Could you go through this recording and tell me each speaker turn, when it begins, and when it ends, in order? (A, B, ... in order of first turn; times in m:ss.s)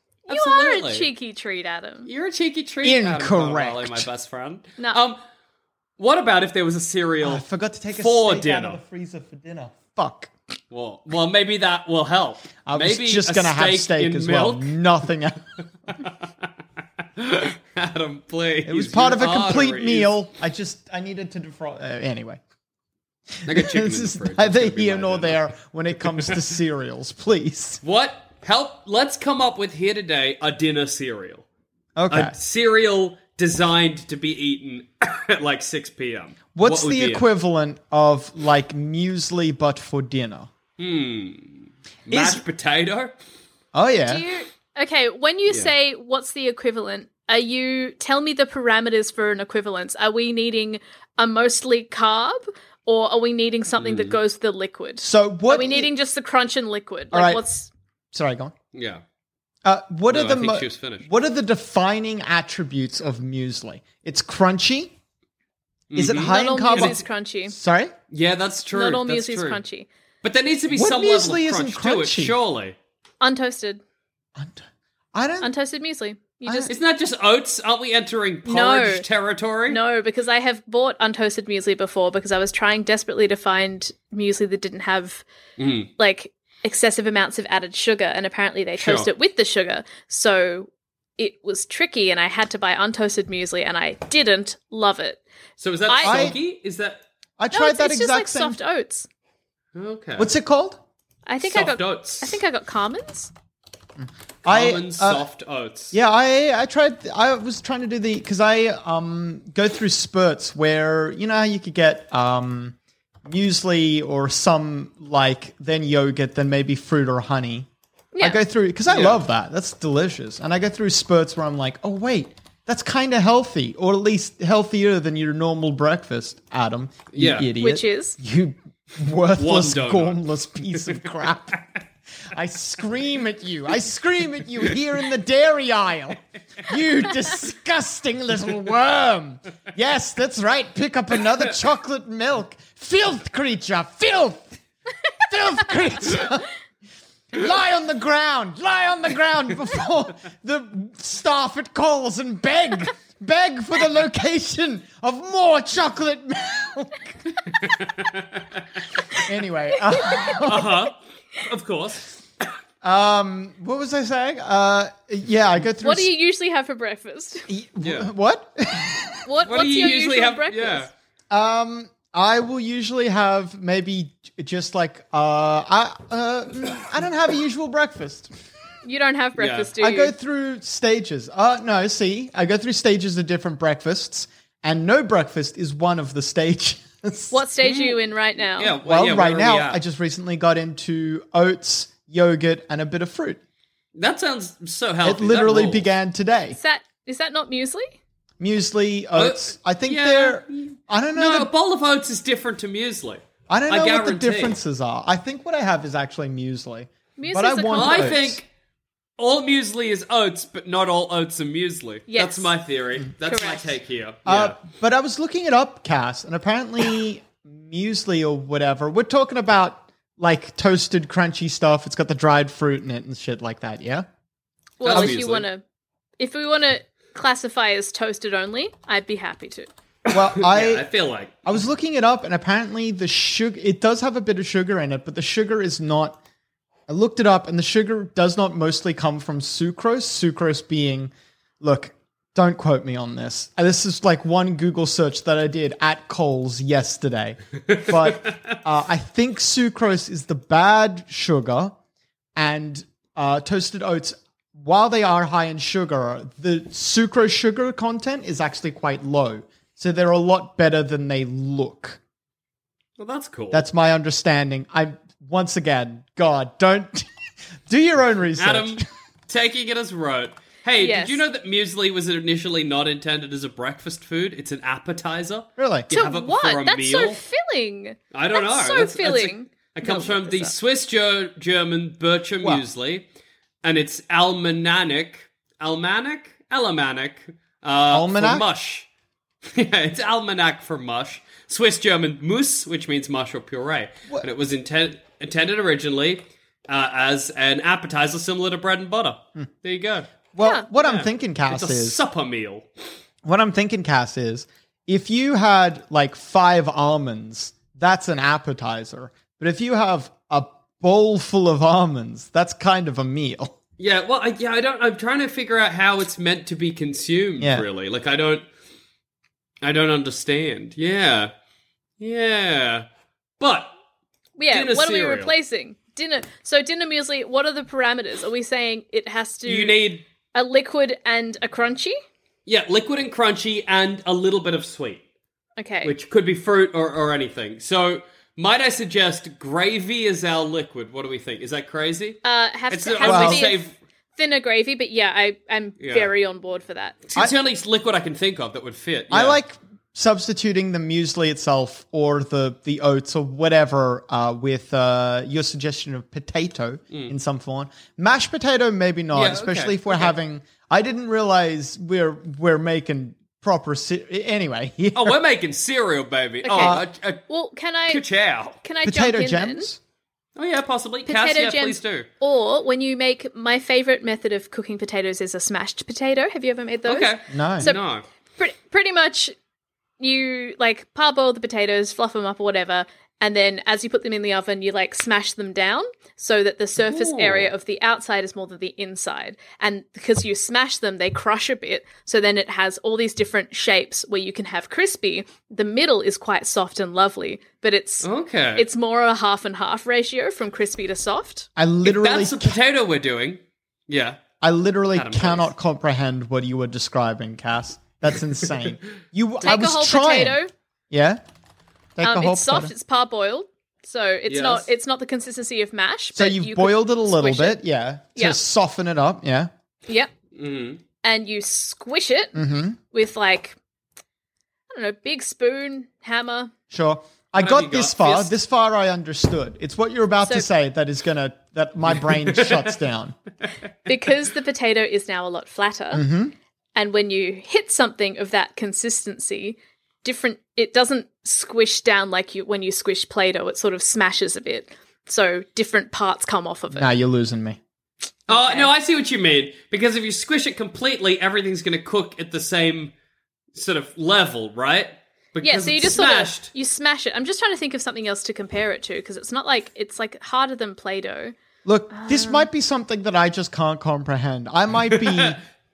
0:00.3-0:01.1 A
0:00.3-0:02.1 B
0:02.1-0:05.2 A
0:02.8-0:04.1 C
0:06.0-0:07.4 A
0:07.2-0:10.3 C
0:08.0-0:08.8 A
0:10.7-0:14.8 A
0:12.6-0:15.4 C
0:17.2-0:20.1 A
0:18.6-0:22.4 C
0:23.4-0:27.8 C
0:23.5-0:25.4 A
0:26.1-0:26.4 A
0:27.8-0:31.4 A
0:32.0-0:32.4 C
0:32.1-0:37.3 A
0:36.6-0:40.5 C
0:40.8-0:43.1 A
0:42.1-0:42.4 C
0:43.7-0:44.2 C
0:44.1-0:57.7 B
0:53.8-0:54.2 A
0:55.0-0:55.9 C
0:57.1-0:57.4 C
0:58.1-0:58.5 C
0:58.7-0:59.0 A
0:59.6-1:05.0 C
1:00.1-1:01.1 A
1:05.9-1:07.0 A
1:05.9-1:07.9 C
1:06.2-1:07.5 B
1:08.1-1:09.6 A
1:08.7-1:09.9 B
1:10.2-1:12.8 A
1:10.7-1:12.4 C
1:13.2-1:13.8 B
1:14.4-1:15.5 C
1:15.4-1:16.7 B
1:16.4-1:16.7 C
1:16.7-1:19.8 A
1:18.5-1:19.0 B
1:19.7-1:25.2 B
1:25.6-1:25.9 A
1:26.0-1:35.2 B
1:28.8-1:29.1 A
1:35.6-1:37.0 A
1:35.9-1:36.4 B
1:36.0-1:36.4 C
1:37.4-1:38.6 C
1:37.5-1:39.1 B
1:39.8-1:40.3 A
1:40.2-1:40.8 C
1:41.3-1:43.3 B
1:41.4-1:42.4 A
1:44.0-1:45.3 C
1:44.5-1:45.9 A
1:45.9-1:52.8 C
1:53.3-1:57.7 C
1:58.2-1:58.4 B
1:58.2-2:11.7 C
1:58.9-1:59.2 A
2:07.1-2:07.5 A
2:07.6-2:08.2 B
2:09.4-2:10.2 A
2:12.3-2:24.6 C
2:25.3-2:26.5 C
2:27.3-2:37.2 C
2:37.6-2:38.6 A
2:39.2-2:40.7 C
2:40.0-2:40.3 B
2:40.4-2:42.1 A
2:42.8-2:46.1 C
2:45.8-2:47.5 B
2:47.5-2:49.2 C
2:47.8-2:48.1 A
2:49.2-2:50.9 B
2:49.4-2:50.9 A
2:51.3-2:58.3 C
2:58.8-3:00.1 B
2:59.4-2:59.7 A
2:59.8-3:07.4 C
3:07.3-3:08.8 B
3:07.6-3:09.8 A
3:08.8-3:13.4 C
3:14.0-3:15.9 A
3:15.0-3:16.6 C
3:16.5-3:18.0 B
3:18.4-3:21.5 C
3:19.2-3:24.6 A
3:23.5-3:28.4 C
3:27.2-3:28.3 B
3:27.7-3:28.5 A
3:29.2-3:34.6 A
3:32.1-3:32.5 B
3:33.3-3:33.8 B
3:34.3-3:44.1 C
3:44.8-3:45.6 B
3:44.8-3:45.5 A
3:46.2-3:49.7 B
3:50.1-3:51.5 A
3:50.1-3:50.9 C
3:51.5-3:56.2 C
3:56.9-4:11.8 C
4:07.7-4:08.5 A
4:12.4-4:22.0 C
4:23.0-4:23.7 A
4:23.5-4:27.1 C
4:27.7-4:28.8 C
4:28.4-4:37.2 A
4:30.8-4:31.2 B
4:35.6-4:35.9 C
4:35.9-4:40.5 B
4:38.1-4:43.0 A
4:43.6-4:48.9 A
4:47.9-4:48.5 C
4:49.4-5:00.1 A
5:00.3-5:02.0 C
5:00.8-5:02.7 A
5:03.2-5:13.6 C
5:13.8-5:18.5 A
5:17.4-5:17.6 C
5:19.6-5:21.3 A
5:22.0-5:22.9 A
5:23.4-5:23.7 A
5:24.4-5:29.8 B
5:24.5-5:25.3 A
5:29.5-5:30.0 A
5:30.3-5:32.0 B
5:32.5-5:35.0 A
5:35.6-5:35.9 B
5:35.8-5:43.8 A
5:42.2-5:47.0 B
5:43.0-5:43.5 C
5:45.8-5:46.1 A
5:47.0-5:49.4 A
5:49.1-6:05.2 C
5:59.1-6:00.1 A
6:05.0-6:07.2 A
6:06.4-6:08.0 B
6:06.6-6:06.8 C
6:07.9-6:08.6 A
6:08.6-6:09.7 B
6:08.8-6:09.8 C
6:10.4-6:12.1 A
6:11.1-6:17.8 B
6:16.9-6:18.0 A
6:17.3-6:17.7 C
6:18.4-6:19.3 B
6:20.0-6:41.5 B
6:26.8-6:27.5 A
6:38.0-6:38.7 A
6:41.6-6:42.6 C
6:41.8-6:44.2 A
6:44.4-6:50.4 C
6:44.9-6:45.5 A
6:49.4-6:50.5 B
6:50.9-6:51.2 C
6:52.0-6:52.7 C
6:52.0-6:57.6 B
6:54.3-6:54.7 A
6:56.2-6:59.5 C
7:00.4-7:00.8 A
7:01.0-7:03.6 B
7:02.4-7:02.8 C
7:04.7-7:06.5 B
7:06.7-7:13.2 C
7:07.4-7:08.3 A
7:12.1-7:12.7 A
7:13.9-7:16.0 B
7:15.9-7:16.4 C
7:16.8-7:26.9 B
7:26.7-7:27.6 C
7:28.3-7:28.7 B
7:28.3-7:32.9 A
7:33.6-7:36.5 A
7:35.4-7:41.3 B
7:41.6-7:45.4 C
7:41.9-7:42.4 B
7:44.9-7:45.4 A